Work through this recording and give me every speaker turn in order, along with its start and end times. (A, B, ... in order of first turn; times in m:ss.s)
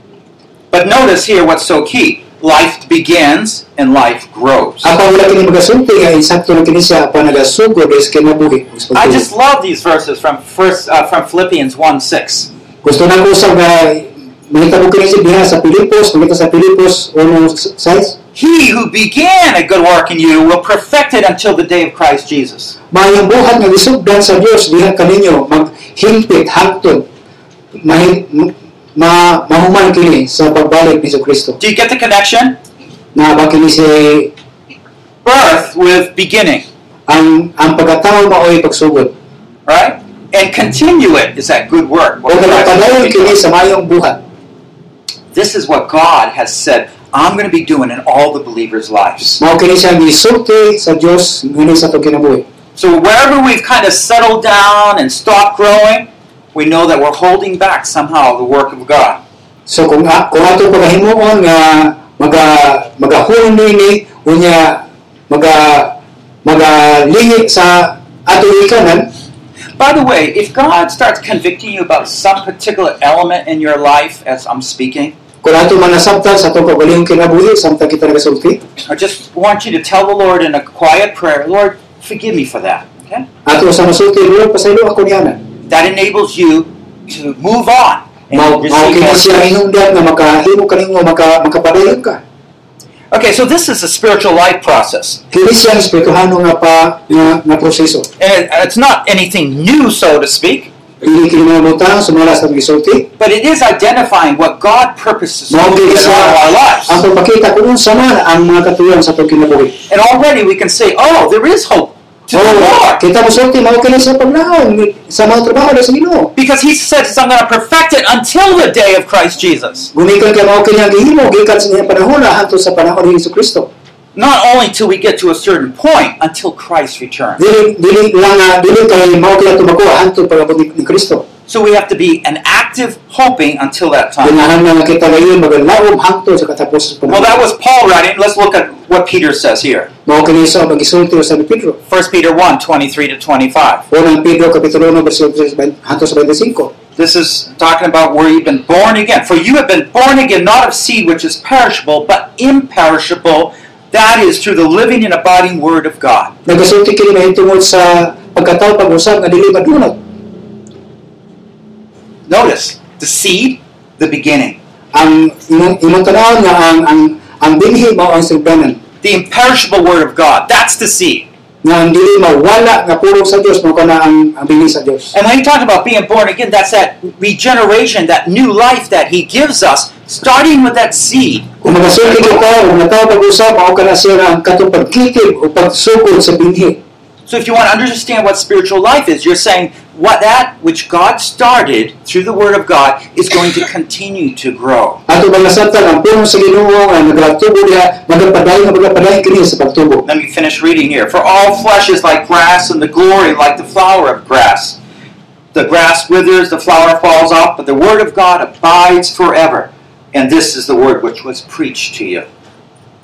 0:00.7-0:04.9 A
0:04.8-0:09.2 B
0:08.9-0:12.5 A
0:12.8-0:18.2 B
0:18.3-0:22.7 A
0:22.9-0:27.1 B
0:27.8-0:31.6 B
0:31.6-0:32.6 A
0:33.1-0:34.3 B
0:35.2-0:36.6 A
0:37.1-0:39.1 B
0:39.6-0:43.4 A
0:42.3-0:44.2 B
0:45.3-0:49.4 A
0:49.4-0:52.4 B
0:52.8-0:59.2 A
0:59.6-1:09.1 B
1:09.8-1:15.1 A
1:15.4-1:18.6 B
1:18.9-1:23.2 A
1:23.4-1:25.4 B
1:25.7-1:29.6 A
1:28.3-1:32.2 B
1:33.1-1:35.2 A
1:35.3-1:38.1 B
1:38.2-1:40.7 A
1:41.0-1:43.1 B
1:43.2-1:47.0 A
1:45.5-1:49.8 B
1:49.9-1:53.0 A
1:52.3-1:56.3 B
1:56.3-1:59.9 A
1:59.9-2:03.7 B
2:04.1-2:07.4 A
2:07.4-2:11.2 B
2:11.5-2:14.4 A
2:14.2-2:17.3 B
2:17.1-2:19.9 A
2:20.0-2:21.8 B
2:21.9-2:23.8 A
2:23.9-2:26.7 B
2:27.0-2:36.3 A
2:36.4-2:40.0 B
2:42.3-2:44.6 A
2:44.9-2:48.8 B
2:49.0-2:51.3 A
2:51.6-2:55.1 B
2:55.1-3:02.4 A
3:01.6-3:06.8 B
3:07.3-3:15.0 A
3:15.1-3:20.0 B
3:20.0-3:24.8 A
3:25.5-3:32.3 A